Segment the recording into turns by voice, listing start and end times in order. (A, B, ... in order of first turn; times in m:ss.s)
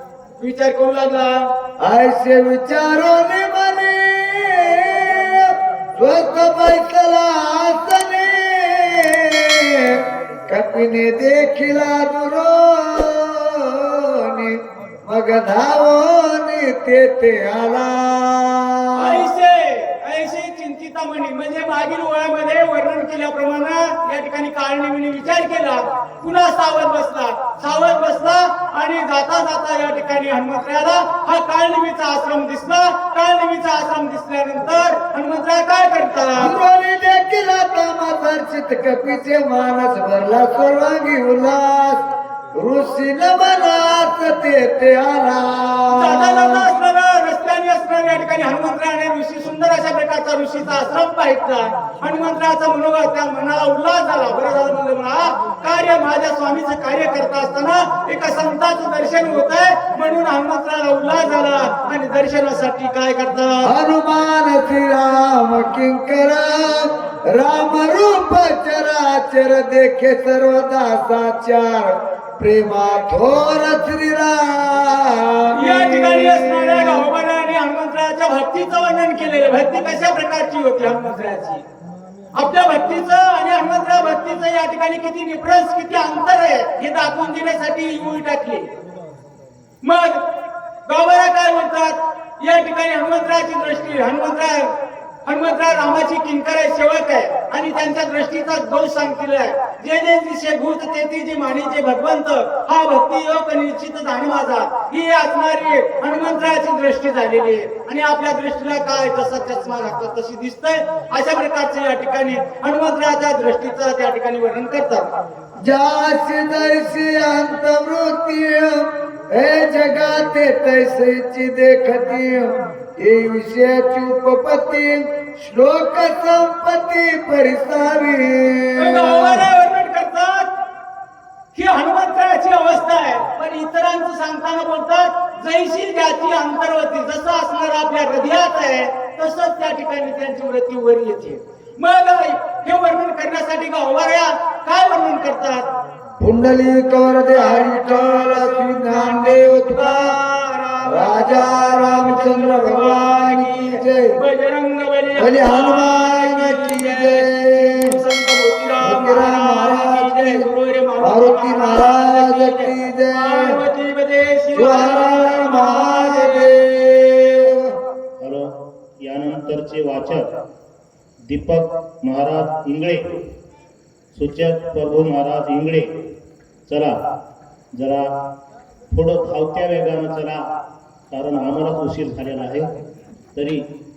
0:00.4-0:01.5 A
0:01.8-0:19.2 B
0:19.0-0:36.5 A
0:36.4-0:46.7 B
0:45.9-1:03.7 A
1:03.6-1:17.0 B
1:15.5-1:21.6 A
1:22.3-1:28.7 A
1:29.8-1:30.4 A
1:30.9-1:34.7 A
1:35.2-1:55.1 A
1:55.6-2:09.4 B
2:08.8-2:10.5 A
2:11.5-2:25.7 A
2:26.2-2:30.2 B
2:27.3-2:46.5 A
2:30.8-2:34.2 B
2:35.2-2:37.9 B
2:38.8-2:40.4 B
2:41.0-2:43.6 B
2:44.5-2:47.7 B
2:48.2-2:50.3 C
2:51.3-2:53.2 C
2:54.1-2:55.9 C
2:56.7-2:57.0 C
2:57.7-2:58.1 C
2:58.9-3:00.4 C
3:01.1-3:02.7 C
3:03.3-3:03.6 C